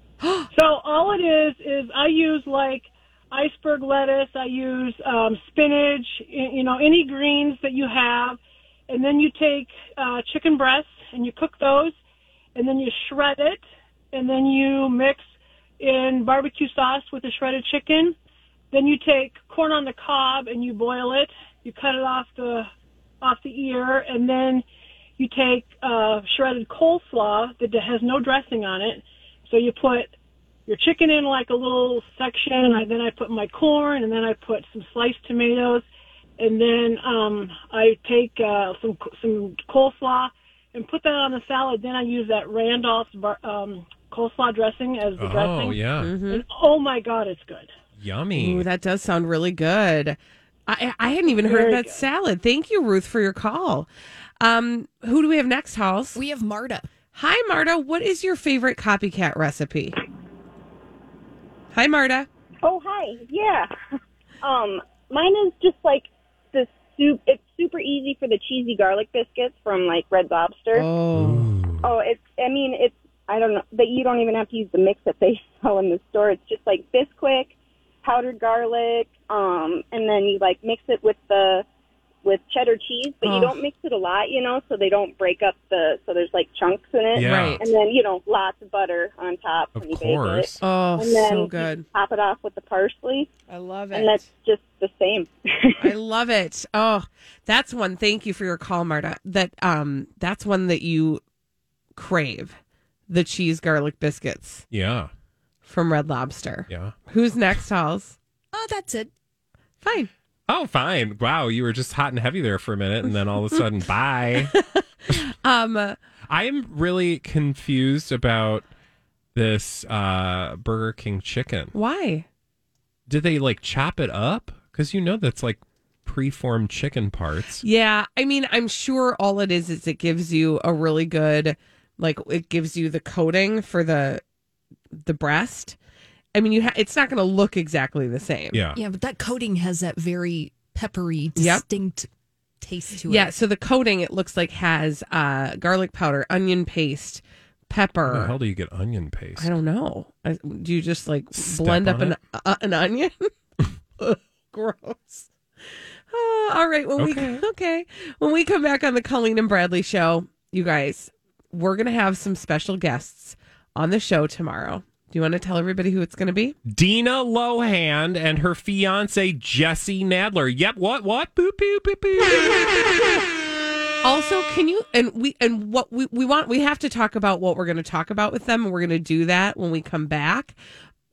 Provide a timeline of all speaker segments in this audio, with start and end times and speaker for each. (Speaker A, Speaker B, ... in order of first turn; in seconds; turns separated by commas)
Speaker A: 0.2-0.5, Speaker B: 0.5-11.9, Speaker B: 12.5-13.6, Speaker B: 14.1-15.2, Speaker B: 15.8-18.1, Speaker B: 18.7-22.7, Speaker B: 23.2-24.6, Speaker B: 25.2-30.1, Speaker B: 30.7-35.8, Speaker B: 36.4-47.7, Speaker C: 45.1-46.2, Speaker A: 46.0-46.4, Speaker C: 47.9-48.7, Speaker A: 48.3-53.9, Speaker B: 51.3-52.0, Speaker A: 54.4-56.2, Speaker D: 56.1-56.9, Speaker A: 57.1-60.0, Speaker A: 61.7-62.3, Speaker E: 62.6-63.7, Speaker E: 64.4-70.9, Speaker A: 70.7-71.5, Speaker C: 71.1-71.8, Speaker E: 71.8-81.7, Speaker E: 82.2-93.3, Speaker A: 83.2-83.6, Speaker A: 87.2-87.6, Speaker C: 87.2-87.7, Speaker C: 89.7-90.6, Speaker A: 90.6-91.8, Speaker A: 93.5-94.3, Speaker E: 93.9-95.9, Speaker A: 95.8-101.2, Speaker A: 102.0-102.6, Speaker A: 103.1-104.6, Speaker C: 104.7-105.1, Speaker A: 105.6-108.2, Speaker C: 106.7-106.9, Speaker D: 108.5-109.1, Speaker A: 109.8-110.1, Speaker C: 110.5-114.5, Speaker A: 114.3-116.0, Speaker C: 116.3-118.7, Speaker C: 119.3-121.7, Speaker A: 121.7-122.2, Speaker C: 123.1-127.6, Speaker A: 127.6-134.2, Speaker A: 135.0-135.8, Speaker A: 136.3-138.6, Speaker C: 138.5-138.8, Speaker D: 138.7-142.1, Speaker A: 141.3-141.6, Speaker D: 142.6-143.3, Speaker A: 143.0-148.3, Speaker C: 148.1-149.5, Speaker A: 149.4-153.3, Speaker C: 151.3-152.2, Speaker A: 154.0-155.3, Speaker A: 156.1-166.6, Speaker C: 157.0-157.4, Speaker C: 166.7-172.7, Speaker A: 174.0-180.6